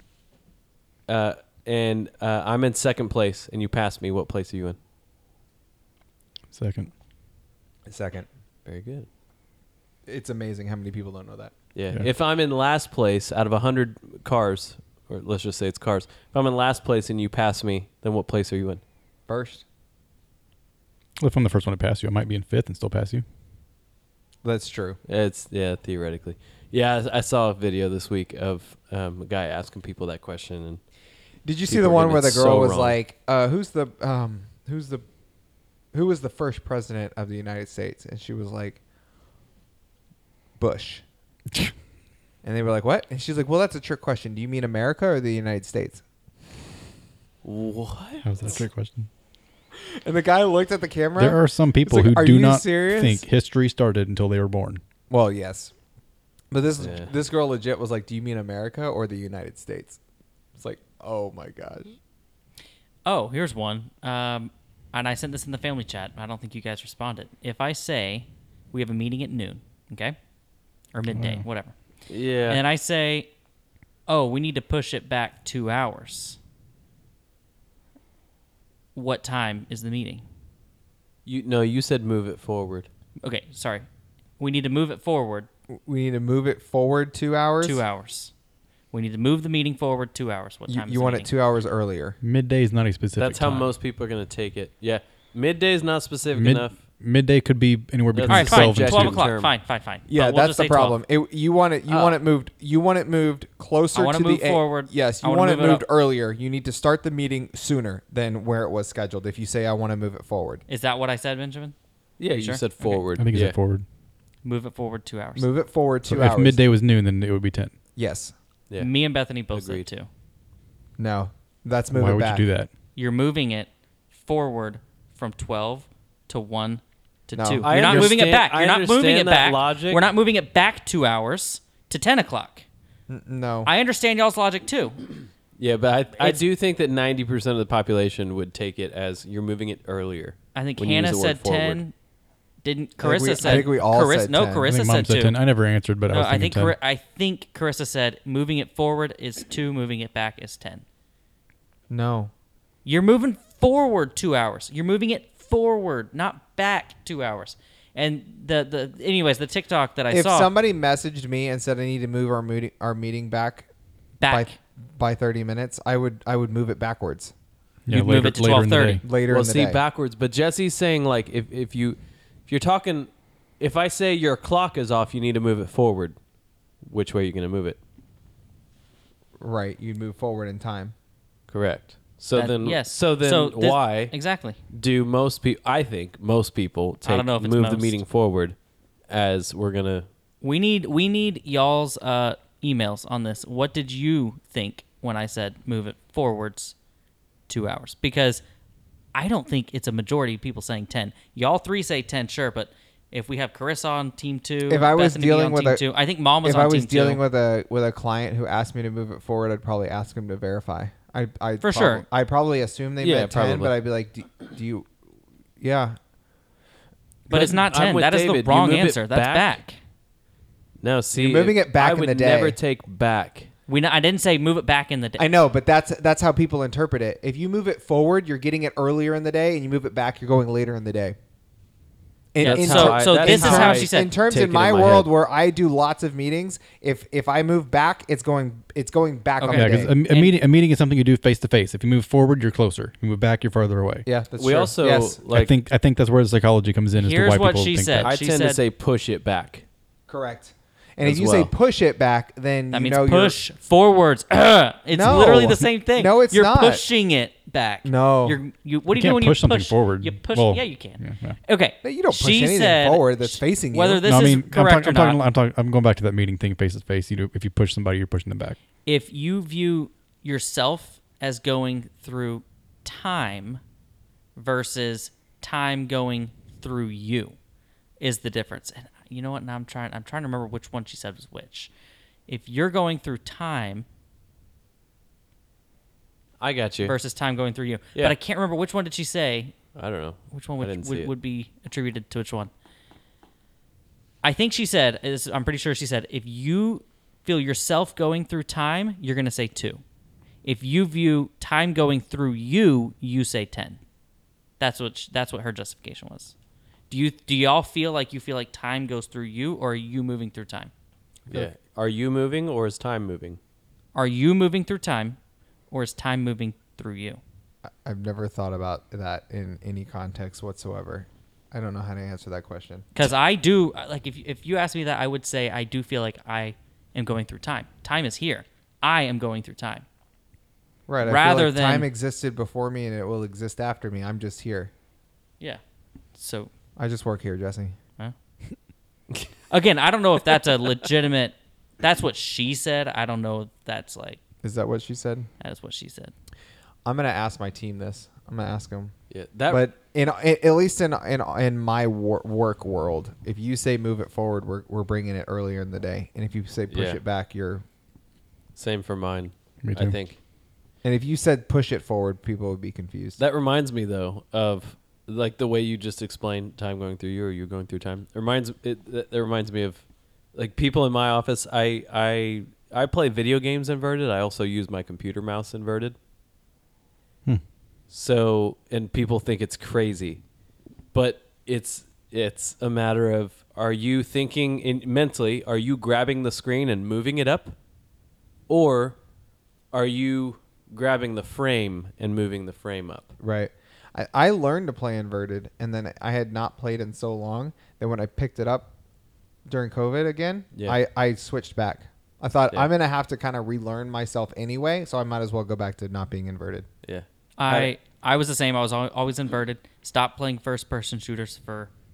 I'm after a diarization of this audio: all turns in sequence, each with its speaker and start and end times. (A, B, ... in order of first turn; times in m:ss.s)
0:01.1-0:04.8 A
0:06.5-0:06.9 B
0:07.8-0:08.3 C
0:08.6-0:09.1 A
0:10.1-0:11.5 C
0:11.7-0:18.8 A
0:19.3-0:19.6 C
0:21.2-0:23.2 B
0:24.4-0:25.0 C
0:25.1-0:30.8 A
0:31.4-0:35.0 C
0:31.7-0:33.0 A
0:35.9-0:38.8 C
0:40.6-0:41.0 C
0:42.4-0:46.0 C
0:47.4-0:48.2 A
0:48.2-0:49.1 B
0:49.8-0:53.2 C
0:51.2-0:54.8 B
0:55.1-0:55.7 C
0:56.5-1:00.0 C
0:56.8-0:57.1 A
1:00.6-1:02.0 C
1:03.0-1:10.2 D
1:10.9-1:11.7 D
1:11.1-1:11.4 B
1:12.1-1:12.6 A
1:12.5-1:13.3 D
1:14.1-1:16.4 D
1:18.9-1:20.2 D
1:21.2-1:22.9 A
1:23.2-1:23.8 D
1:24.4-1:25.5 D
1:25.7-1:27.8 C
1:27.6-1:28.3 D
1:28.9-1:31.3 D
1:30.7-1:32.2 C
1:32.2-1:33.7 B
1:33.2-1:36.8 A
1:36.3-1:39.2 B
1:38.1-1:39.5 A
1:38.3-1:41.0 D
1:40.1-1:50.6 C
1:41.9-1:42.2 A
1:43.9-1:45.8 D
1:50.7-1:51.7 D
1:52.2-1:53.6 A
1:52.3-1:53.0 D
1:53.2-1:53.8 B
1:54.4-1:55.5 D
1:55.4-1:56.6 C
1:56.1-1:57.7 B
1:58.0-1:58.3 C
1:58.8-2:00.1 D
1:59.5-1:59.8 A
2:01.0-2:02.4 C
2:01.9-2:02.7 B
2:03.0-2:12.6 D
2:07.3-2:08.1 C
2:07.6-2:10.0 A
2:13.1-2:13.7 C
2:13.6-2:15.0 D
2:15.6-2:21.8 A
2:20.5-2:21.9 D
2:22.6-2:25.4 D
2:23.0-2:24.7 C
2:24.7-2:26.8 B
2:26.1-2:30.8 D
2:31.9-2:32.3 C
2:32.8-2:40.5 D
2:40.1-2:43.7 C
2:44.2-2:44.5 D
2:44.3-2:47.3 C
2:47.9-2:49.0 B
2:47.9-2:49.0 D
2:49.0-2:49.8 C
2:49.3-2:53.1 A
2:53.6-2:56.2 A
2:56.8-2:57.8 A
2:59.4-3:00.9 C
3:01.5-3:04.1 A
3:02.3-3:04.6 D
3:04.7-3:08.6 A
3:07.0-3:08.0 D
3:09.1-3:10.1 A
3:10.4-3:16.7 D
3:17.5-3:18.4 D
3:19.1-3:27.2 D
3:24.7-3:25.8 C
3:26.4-3:34.9 C
3:31.6-3:32.0 D
3:33.0-3:33.7 A
3:35.6-3:36.0 C
3:37.3-3:39.5 A
3:37.3-3:39.8 D
3:40.8-3:43.5 A
3:41.2-3:42.6 C
3:43.7-3:45.2 D
3:45.2-3:51.2 C
3:52.3-3:59.9 C
3:52.4-3:54.1 D
3:52.4-3:55.1 A
3:59.4-4:00.3 D
3:59.5-4:04.0 B
4:04.0-4:05.2 C
4:04.4-4:05.5 A
4:05.3-4:08.1 B
4:07.0-4:08.6 D
4:08.0-4:09.6 A
4:10.1-4:13.4 C
4:11.0-4:11.5 A
4:12.7-4:25.2 D
4:14.9-4:16.8 C
4:15.1-4:15.6 B
4:17.8-4:18.4 C
4:18.9-4:21.4 B
4:21.8-4:24.0 C
4:24.0-4:28.6 B
4:28.8-4:33.6 D
4:34.4-4:37.4 D
4:38.0-4:41.7 D
4:42.3-4:43.8 D
4:46.4-4:46.9 A
4:46.8-4:49.5 D
4:49.7-4:51.1 A
4:50.3-4:52.5 D
4:54.2-4:59.8 D
5:00.4-5:03.8 D
5:04.6-5:06.3 D
5:06.9-5:10.7 D
5:11.3-5:13.4 A
5:13.9-5:15.2 D
5:15.7-5:17.2 D
5:17.7-5:22.9 C
5:22.9-5:29.8 D
5:30.9-5:34.7 C
5:31.0-5:31.9 D
5:36.2-5:36.5 D
5:36.8-5:37.8 C
5:39.5-5:44.2 D
5:44.4-5:45.3 C
5:45.4-5:46.1 D
5:46.8-5:48.9 C
5:49.1-5:49.7 A
5:49.5-5:57.6 C
5:56.7-5:57.0 A
5:58.5-6:00.2 A
5:59.6-6:00.0 B
6:00.8-6:03.2 C
6:03.2-6:16.0 A
6:17.9-6:20.2 A
6:20.9-6:27.5 A
6:28.5-6:29.0 A
6:29.7-6:33.1 A
6:33.2-6:38.7 C
6:39.5-6:46.7 C
6:46.8-6:47.7 A
6:47.4-6:51.7 D